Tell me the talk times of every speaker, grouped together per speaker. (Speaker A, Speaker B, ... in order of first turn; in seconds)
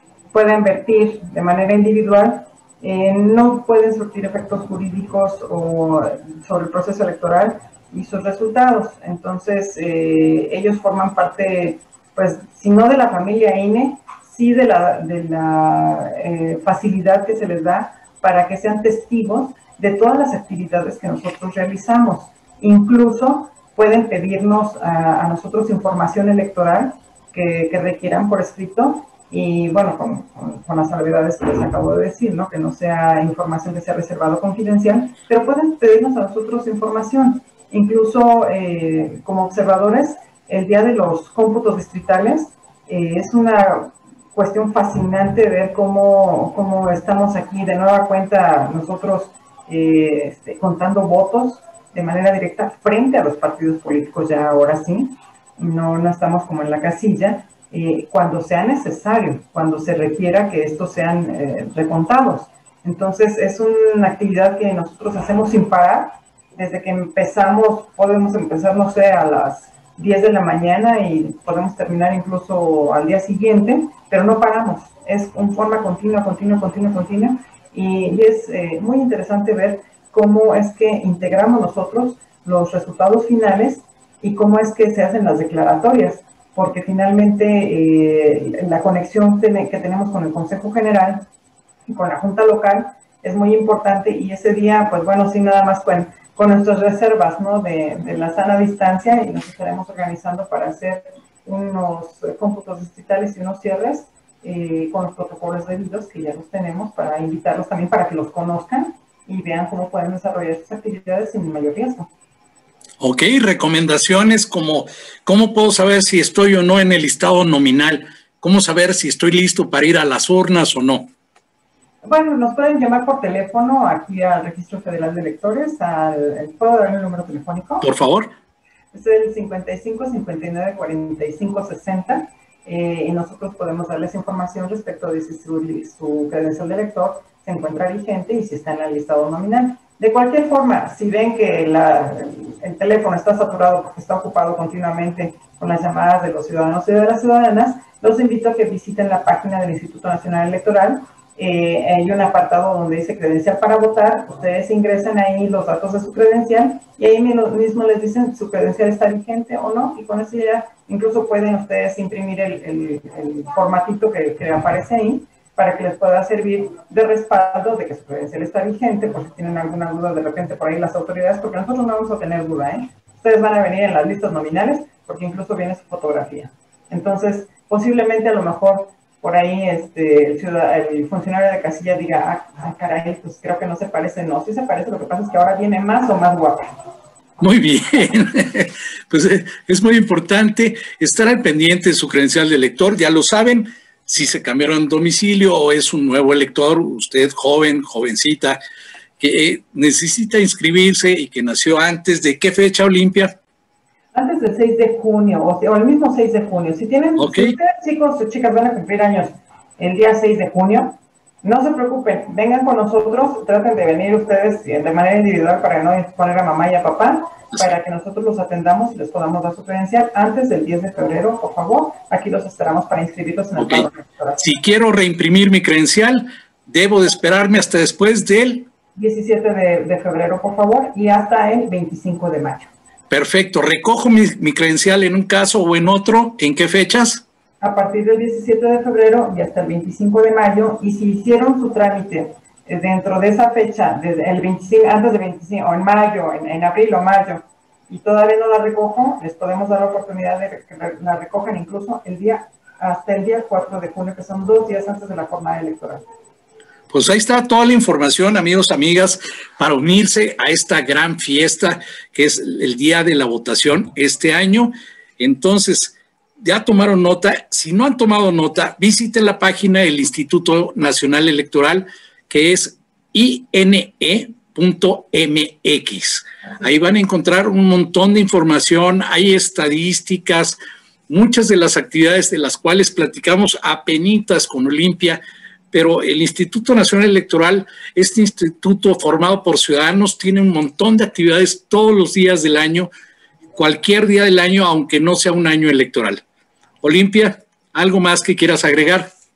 Speaker A: 0.3-91.3, 91.9-112.1, 122.0-127.9, 128.9-186.7, 204.1-224.4, 229.0-232.7, 237.6-256.0
Speaker B: 113.0-121.1, 127.8-128.3, 187.4-198.6, 199.2-203.4, 207.2-207.6, 223.6-223.9, 224.4-228.7, 233.1-237.2, 256.9-280.6, 281.1-285.2, 285.7-292.9, 293.6-296.2, 296.8-299.1